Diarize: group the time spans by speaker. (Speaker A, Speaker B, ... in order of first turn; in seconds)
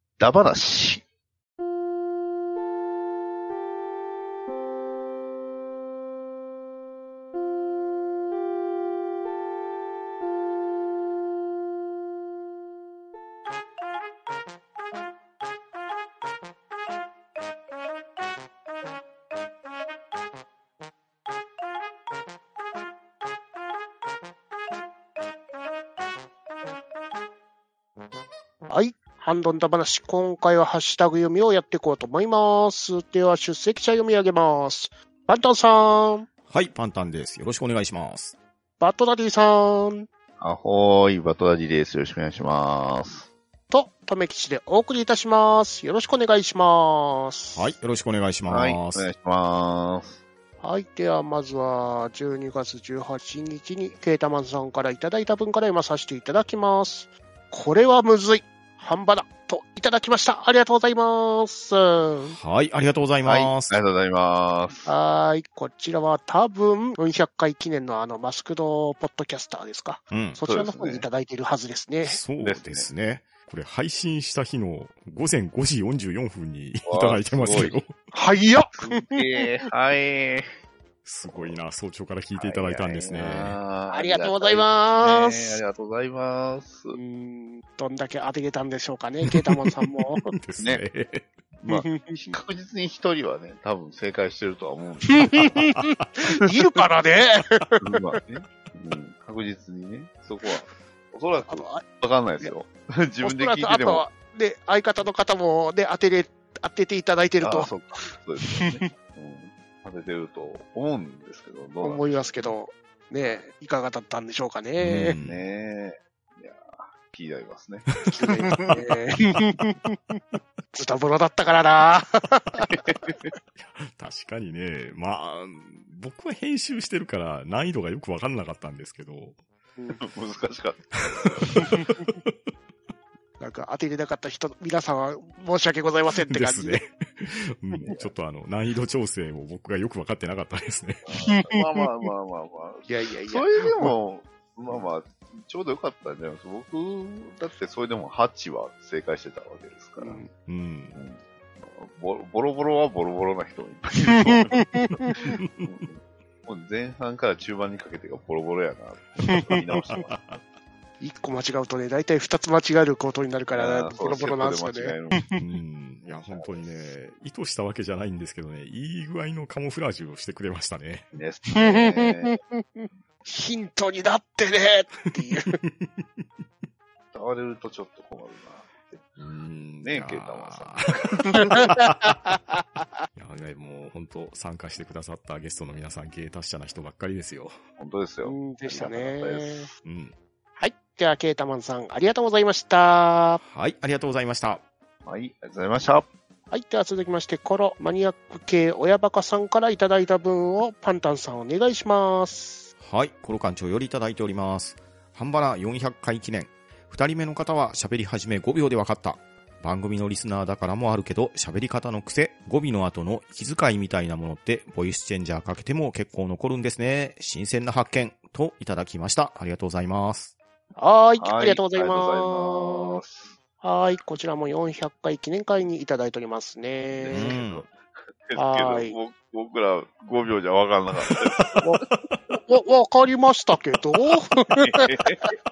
Speaker A: 0.2-1.0, 40.4-43.3, 48.5-50.2, 63.2-64.9, 70.4-71.1, 72.4-72.9, 76.8-77.8, 78.7-80.5, 81.3-81.6, 82.3-87.0, 91.6-95.7, 97.8-104.0, 107.4-112.3, 115.2-118.7, 122.6-123.3, 130.0-131.9, 137.8-138.1, 141.0-150.2, 150.9-160.2, 163.5-165.2, 166.0-166.9, 171.1-172.4, 177.1-179.1, 179.8-181.7, 187.8-189.7, 195.0-196.1, 221.2-223.4, 226.9-227.7, 228.3-231.5, 234.6-235.3
Speaker B: 28.7-36.3, 38.8-40.1, 43.7-47.7, 50.6-62.4, 64.8-72.2, 78.1-79.2, 83.9-85.6, 86.9-90.3, 91.7-92.4, 95.0-97.8, 101.5-101.8, 103.2-108.8, 111.8-115.2, 118.1-122.8, 131.6-131.9, 133.4-136.8, 141.3-141.9, 142.8-143.9, 150.0-150.3, 154.1-155.2, 159.3-159.8, 161.0-165.4, 171.6-175.6, 181.3-182.8, 188.2-189.7, 190.6-193.4, 196.5-202.7, 220.8-223.0, 223.6-227.4, 228.3-228.9, 232.5-235.1
Speaker C: 36.5-38.3, 47.5-49.1, 62.3-63.8, 70.1-70.4, 72.0-77.9, 81.0-83.6, 89.2-89.8, 90.3-91.3, 95.6-96.1, 114.8-115.5, 118.0-118.7, 123.5-129.4, 131.0-132.3, 136.2-141.0, 150.4-151.0, 155.3-155.8, 159.9-160.4, 165.4-171.1, 175.6-176.2, 179.2-182.4, 183.1-187.6, 189.8-190.1, 193.4-194.6, 202.8-220.3, 227.1-227.7, 231.1-232.2